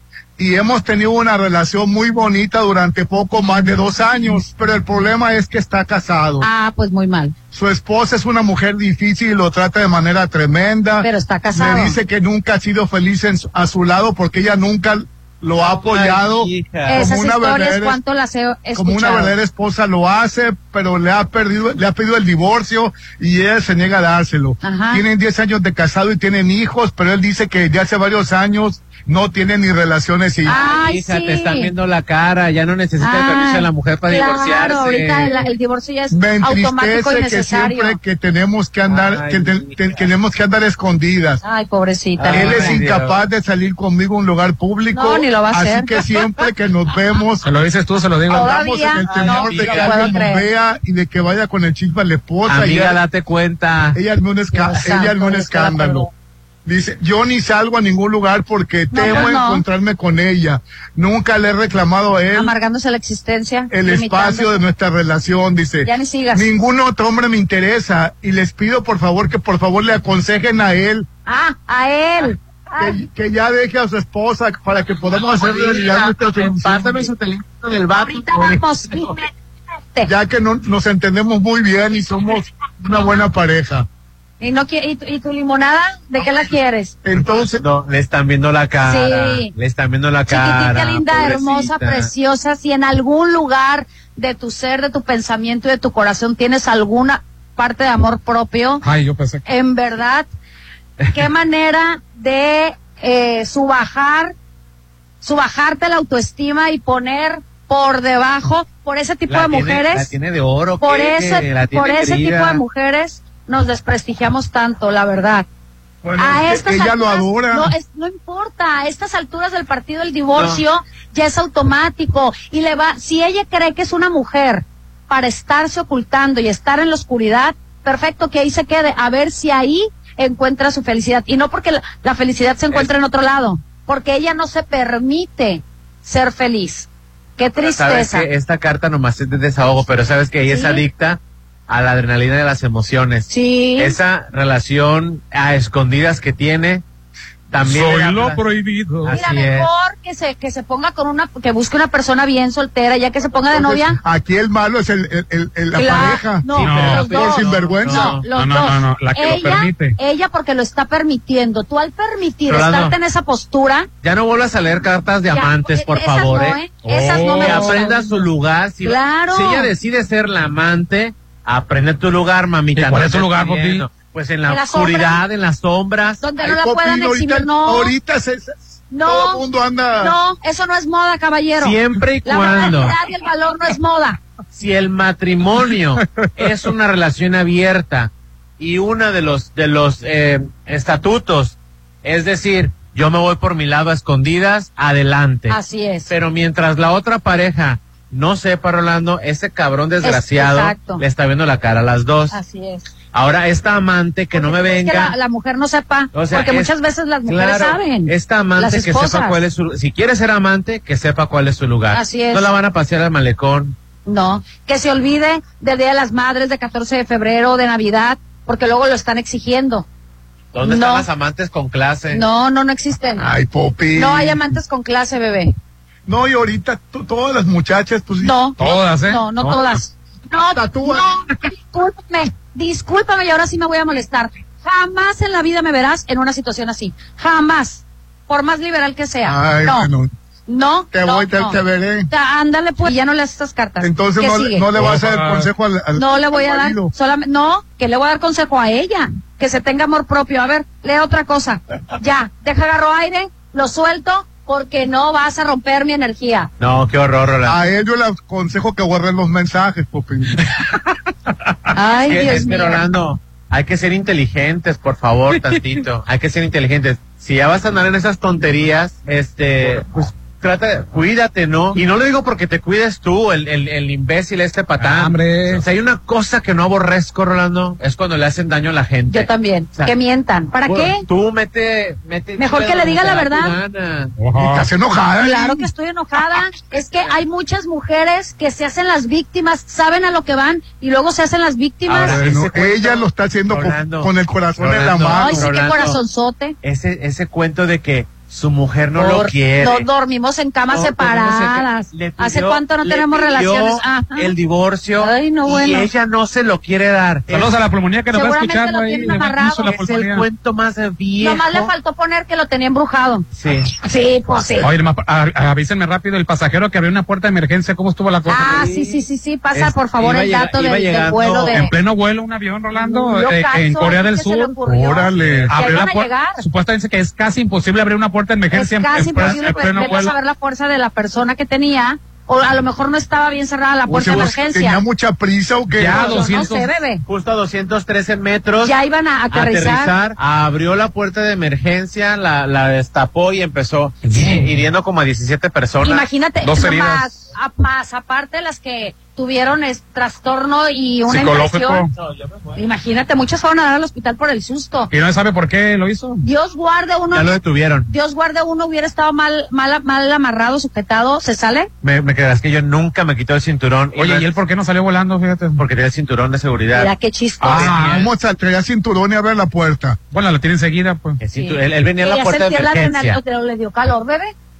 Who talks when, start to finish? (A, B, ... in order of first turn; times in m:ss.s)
0:00.4-0:06.5 A
0:06.4-0:07.3 B
0:07.5-0:18.0 A
0:11.0-0:12.0 B
0:15.5-0:17.1 C
0:16.9-0:19.3 B
0:18.7-0:30.6 A
0:24.6-0:25.0 B
0:30.4-0:35.4 C
0:30.4-0:31.7 B
0:33.0-0:38.0 B
0:36.1-0:41.4 A
0:38.9-0:40.0 C
0:41.4-0:42.8 B
0:42.2-0:43.2 C
0:42.3-0:47.5 A
0:44.9-0:45.9 B
0:47.4-0:48.5 D
0:48.3-0:53.0 A
0:48.3-0:50.5 B
0:49.2-0:50.1 C
0:52.4-0:54.0 C
0:53.9-0:56.1 A
0:54.5-0:56.1 B
0:56.6-1:02.5 A
0:58.9-0:59.6 B
1:02.3-1:04.6 B
1:03.7-1:11.1 A
1:05.8-1:06.5 B
1:11.3-1:12.9 B
1:12.8-1:17.1 A
1:15.4-1:18.6 C
1:18.0-1:19.3 B
1:20.0-1:23.8 A
1:24.4-1:26.9 B
1:27.0-1:27.6 A
1:27.6-1:32.1 C
1:28.8-1:29.5 B
1:30.3-1:38.8 B
1:38.8-1:39.4 D
1:39.4-1:40.3 B
1:41.1-1:44.3 B
1:45.2-1:50.1 B
1:49.3-1:52.6 C
1:50.8-1:55.4 B
1:56.0-1:57.7 A
1:56.2-2:18.3 B
2:00.3-2:00.6 C
2:17.6-2:26.8 C
2:20.5-2:20.8 B
2:23.3-2:24.0 B
2:27.5-2:28.4 C
2:27.6-2:29.1 D
2:29.0-2:29.7 C
2:29.1-2:34.0 B
2:33.5-2:38.2 A
2:35.7-2:43.9 B
2:36.5-2:38.3 C
2:36.6-2:37.0 D
2:38.3-2:40.0 D
2:42.5-2:43.0 C
2:44.0-2:46.6 C
2:45.3-2:48.2 B
2:46.8-2:47.8 D
2:47.3-2:56.2 C
2:48.8-2:49.7 B
2:52.7-2:53.8 D
2:54.5-2:55.2 B
2:56.2-2:57.9 B
2:56.4-3:00.2 A
2:58.9-2:59.4 B
3:00.0-3:04.2 B
3:01.6-3:02.9 C
3:04.5-3:22.4 C
3:15.5-3:16.1 B
3:20.0-3:21.0 B
3:22.3-3:22.8 B
3:23.1-3:25.1 C
3:24.3-3:29.4 B
3:26.1-3:26.7 C
3:27.2-3:33.8 C
3:31.9-3:32.5 B
3:34.0-3:39.8 B
3:40.5-3:42.2 C
3:40.6-3:41.0 B
3:42.1-3:43.2 B
3:43.2-3:44.4 A
3:43.9-3:45.5 B
3:46.0-3:48.3 A
3:48.2-3:51.1 B
3:48.6-3:49.7 D
3:50.5-3:51.1 A
3:51.6-3:59.9 B
3:59.2-4:00.1 A
4:00.5-4:01.6 B
4:00.9-4:02.1 A
4:02.1-4:04.7 B
4:03.8-4:06.9 A
4:04.8-4:05.5 D
4:06.0-4:16.5 B
4:16.6-4:17.6 C
4:17.4-4:20.4 A
4:21.7-4:22.8 B
4:22.0-4:39.9 C
4:34.8-4:35.6 D
4:39.1-4:41.0 B
4:40.6-4:44.1 C
4:42.4-4:43.6 B
4:44.2-4:44.7 D
4:44.4-4:45.7 A
4:45.2-4:52.2 B
4:51.8-4:56.0 C
4:52.0-4:55.5 A
4:55.1-4:56.6 B
4:56.6-4:59.9 C
4:58.9-5:04.3 B
5:00.7-5:07.6 C
5:05.0-5:05.9 B
5:07.3-5:10.2 D
5:08.1-5:09.8 B
5:09.6-5:11.7 C
5:11.2-5:13.2 B
5:13.4-5:13.7 C
5:13.8-5:14.7 B
5:14.6-5:18.5 D
5:18.3-5:19.0 C
5:18.3-5:21.7 B
5:19.5-5:21.7 C
5:21.5-5:30.1 D
5:22.7-5:26.4 B
5:24.8-5:25.8 A
5:28.5-5:34.8 B
5:33.9-5:34.3 C
5:34.0-5:36.3 A
5:35.8-5:36.7 D
5:35.8-5:36.4 C
5:35.9-5:37.0 B
5:37.0-5:38.8 C
5:38.6-5:39.9 B
5:39.3-5:46.0 C
5:44.1-5:44.4 D
5:45.8-5:51.8 B
5:46.4-5:47.2 D
5:51.1-5:51.9 D
5:52.5-5:54.9 B
5:54.9-5:56.2 D
5:56.2-6:01.7 B
5:57.1-5:57.9 C
6:01.8-6:04.4 C
6:04.0-6:05.6 D
6:05.6-6:06.9 C
6:06.7-6:07.7 B
6:07.4-6:08.1 D
6:07.4-6:08.1 C
6:07.7-6:10.0 A
6:10.1-6:11.2 D
6:11.2-6:13.2 C
6:11.4-6:14.3 B